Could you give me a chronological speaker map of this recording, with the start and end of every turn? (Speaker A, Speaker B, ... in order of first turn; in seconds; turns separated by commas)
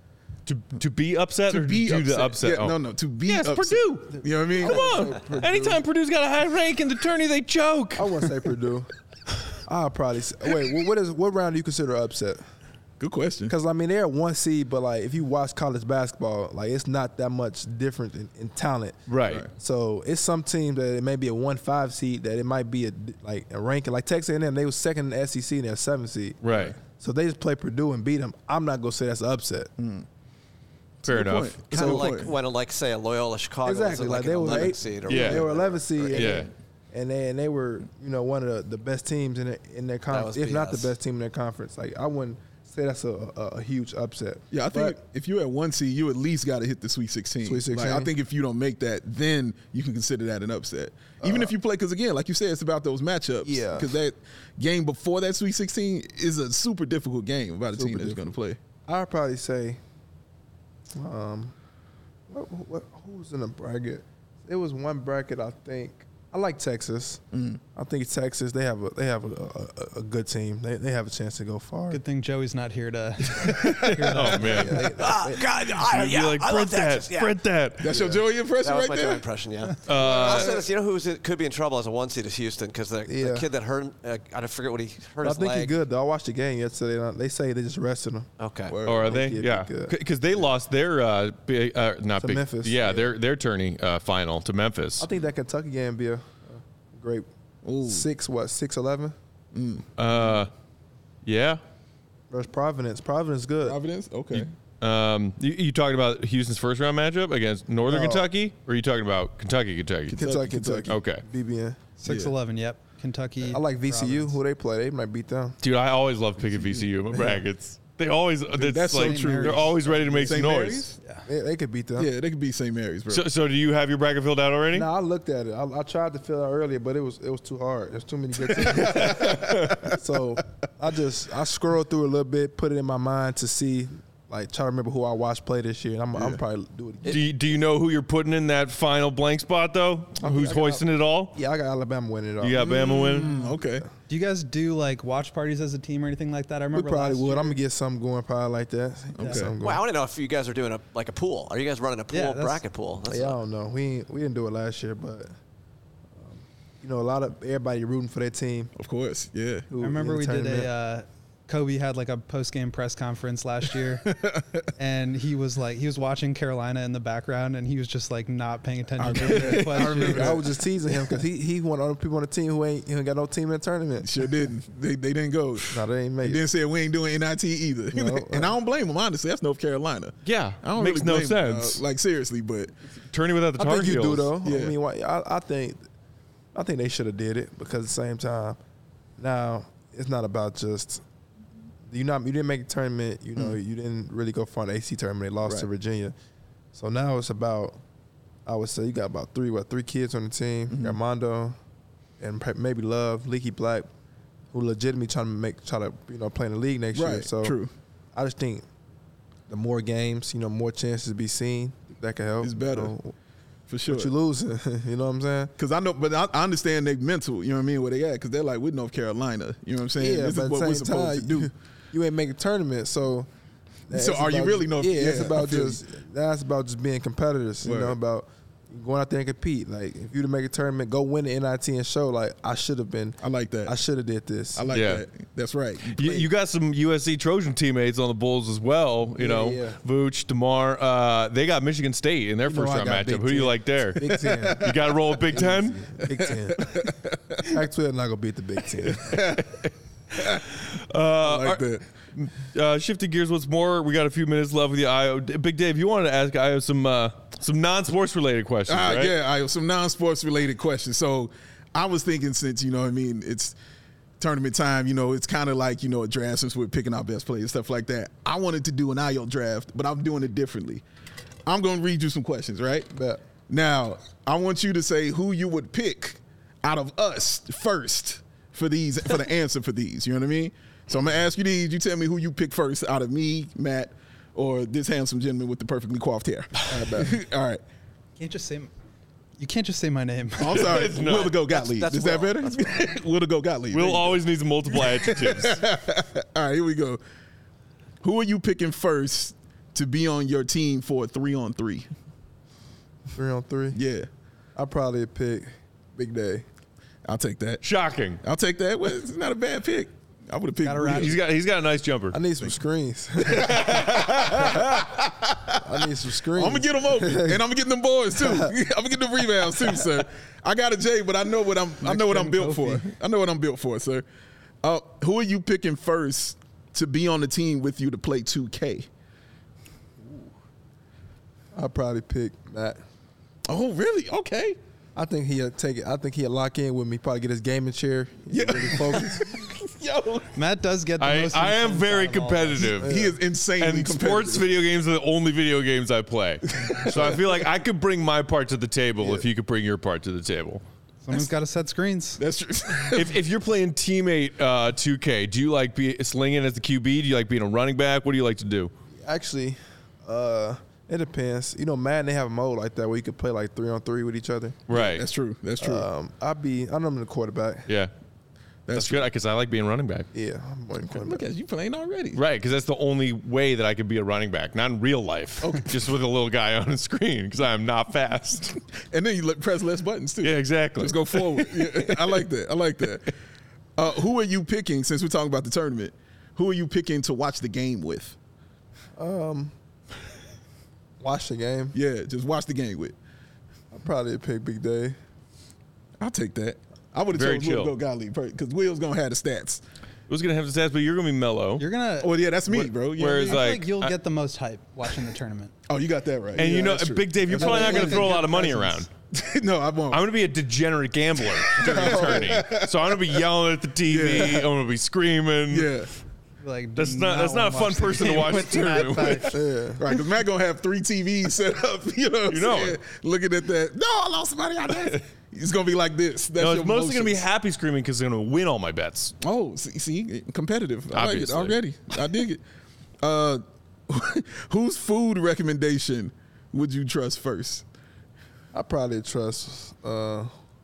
Speaker A: 0.5-8.2, Speaker B: 1.5-4.9, Speaker C: 4.1-5.8, Speaker C: 7.9-8.9, Speaker C: 9.6-12.4, Speaker B: 13.0-13.5, Speaker C: 13.5-29.7, Speaker A: 19.1-19.4, Speaker A: 26.4-26.7, Speaker B: 26.5-26.8, Speaker B: 29.8-30.1, Speaker B: 31.0-32.3, Speaker A: 31.1-31.6, Speaker C: 31.7-32.2, Speaker D: 31.7-36.2, Speaker C: 33.6-45.0, Speaker B: 34.5-35.4, Speaker A: 35.1-35.4, Speaker A: 36.1-36.5, Speaker B: 36.2-36.4, Speaker D: 40.1-40.9, Speaker B: 44.5-58.6, Speaker C: 47.4-48.1, Speaker C: 51.2-51.5, Speaker C: 53.4-54.0, Speaker C: 57.7-58.2, Speaker C: 58.9-59.8, Speaker C: 60.9-61.5, Speaker C: 62.3-67.2, Speaker B: 67.3-67.6, Speaker C: 67.7-72.0, Speaker E: 71.9-74.8, Speaker A: 73.7-77.9, Speaker C: 74.4-75.4, Speaker D: 75.0-77.3, Speaker B: 77.8-79.2, Speaker C: 77.9-78.2, Speaker D: 78.6-85.7, Speaker A: 79.8-80.6, Speaker C: 83.0-83.5, Speaker C: 85.2-88.3, Speaker D: 88.4-88.8, Speaker B: 88.7-89.2, Speaker A: 88.8-95.1, Speaker C: 88.9-90.0, Speaker C: 92.2-93.1, Speaker C: 95.0-97.3, Speaker B: 97.6-98.0, Speaker C: 97.8-99.2, Speaker B: 99.5-100.4, Speaker A: 100.0-100.5, Speaker A: 101.2-101.6, Speaker C: 102.3-103.8, Speaker B: 103.6-104.5, Speaker A: 104.3-110.2, Speaker C: 107.8-108.3, Speaker B: 110.1-110.9, Speaker C: 110.1-111.8, Speaker A: 110.9-111.2, Speaker E: 112.0-114.3, Speaker B: 112.0-112.3, Speaker C: 113.4-115.6, Speaker A: 115.6-120.8, Speaker B: 116.6-117.4, Speaker B: 118.5-121.0, Speaker E: 118.9-120.3, Speaker C: 121.2-122.1, Speaker B: 122.0-123.2, Speaker A: 123.1-124.9, Speaker C: 124.7-137.2, Speaker B: 128.4-130.0, Speaker A: 129.0-129.8, Speaker A: 137.0-141.3, Speaker C: 140.2-142.7, Speaker A: 142.4-143.3, Speaker B: 142.5-143.9, Speaker C: 143.3-143.9, Speaker E: 144.1-147.6, Speaker C: 146.7-149.8, Speaker B: 149.2-149.5, Speaker D: 149.6-153.4, Speaker E: 152.1-152.6, Speaker C: 153.1-155.3, Speaker C: 156.1-158.7, Speaker B: 158.8-159.7, Speaker C: 159.7-160.7, Speaker E: 159.8-164.0, Speaker B: 164.0-164.7, Speaker E: 164.8-170.4, Speaker B: 169.0-170.4, Speaker C: 169.1-174.4, Speaker B: 174.0-182.7, Speaker C: 175.6-176.4, Speaker C: 177.9-178.6, Speaker A: 180.2-181.8, Speaker A: 183.1-184.3, Speaker C: 183.6-185.8, Speaker B: 184.4-184.7, Speaker C: 186.5-188.6, Speaker C: 189.2-191.0, Speaker C: 191.9-196.1, Speaker C: 196.7-197.8, Speaker C: 198.4-201.6, Speaker B: 200.7-201.0, Speaker C: 202.2-203.9, Speaker C: 204.5-207.6, Speaker B: 206.9-207.7, Speaker C: 208.1-208.7, Speaker C: 209.5-213.1, Speaker B: 212.4-212.9, Speaker B: 213.7-214.1, Speaker C: 213.9-215.5, Speaker B: 215.6-221.5, Speaker C: 219.9-223.3, Speaker C: 223.9-234.7, Speaker B: 223.9-225.8, Speaker B: 227.6-228.0, Speaker B: 233.2-233.7, Speaker B: 234.5-236.3, Speaker A: 234.7-235.0, Speaker A: 235.9-244.0, Speaker C: 239.2-239.8, Speaker C: 242.4-244.7, Speaker B: 244.0-245.5, Speaker A: 244.6-245.8, Speaker C: 245.3-246.8, Speaker B: 246.0-247.5, Speaker C: 247.4-249.2, Speaker B: 248.8-250.4, Speaker A: 250.7-259.1, Speaker B: 251.2-251.8, Speaker B: 258.7-263.5, Speaker B: 264.2-270.8, Speaker B: 271.4-272.9, Speaker C: 272.9-273.2, Speaker B: 273.5-287.6, Speaker C: 286.8-287.1, Speaker E: 288.2-288.7, Speaker E: 289.4-290.9, Speaker B: 290.4-297.0, Speaker A: 290.5-291.4, Speaker D: 291.5-292.9, Speaker A: 293.7-295.6, Speaker B: 298.0-301.9, Speaker C: 303.1-303.8, Speaker B: 303.7-304.1, Speaker C: 304.6-306.4, Speaker B: 307.0-307.6, Speaker A: 307.6-308.2, Speaker B: 308.2-311.2, Speaker E: 310.6-311.2, Speaker A: 310.9-312.2, Speaker C: 312.1-314.4, Speaker B: 313.3-315.8, Speaker A: 314.2-314.6, Speaker C: 315.6-317.4, Speaker B: 316.3-324.1, Speaker C: 318.1-318.5, Speaker E: 321.8-322.8, Speaker B: 324.6-328.9, Speaker C: 331.5-332.8, Speaker B: 333.5-334.6, Speaker C: 334.9-339.3, Speaker B: 338.3-340.3, Speaker E: 340.3-342.8, Speaker A: 341.0-342.9, Speaker C: 342.8-343.2, Speaker B: 342.8-344.5, Speaker A: 343.6-350.6, Speaker B: 346.6-347.4, Speaker E: 351.0-352.2, Speaker B: 352.2-353.2, Speaker A: 352.9-358.7, Speaker C: 358.9-364.6, Speaker A: 364.7-365.0, Speaker B: 364.7-365.9, Speaker C: 365.6-367.7, Speaker B: 368.6-369.1, Speaker A: 368.7-370.1, Speaker C: 370.1-371.2, Speaker B: 370.9-372.2, Speaker A: 372.1-378.6, Speaker B: 375.4-375.7, Speaker B: 378.9-383.1, Speaker A: 380.2-382.2, Speaker B: 383.8-388.1, Speaker C: 388.9-389.5, Speaker C: 391.0-391.8, Speaker B: 391.7-392.9, Speaker C: 393.7-395.0, Speaker B: 396.0-399.6, Speaker A: 397.1-397.7, Speaker A: 400.1-401.6, Speaker E: 401.6-402.2, Speaker B: 402.0-403.4, Speaker A: 402.5-403.9, Speaker E: 403.0-405.5, Speaker B: 405.7-408.4, Speaker A: 406.4-408.9, Speaker E: 407.3-408.8, Speaker B: 409.1-410.0, Speaker A: 409.9-415.7, Speaker B: 411.2-413.2, Speaker C: 411.7-412.4, Speaker B: 413.9-414.5, Speaker B: 415.5-415.9, Speaker E: 416.4-419.4, Speaker A: 416.8-419.3, Speaker C: 419.3-419.8, Speaker B: 419.8-427.2, Speaker A: 422.3-422.8, Speaker A: 426.4-429.1, Speaker B: 429.2-432.4, Speaker A: 430.9-431.6, Speaker B: 433.0-437.6, Speaker C: 438.5-440.3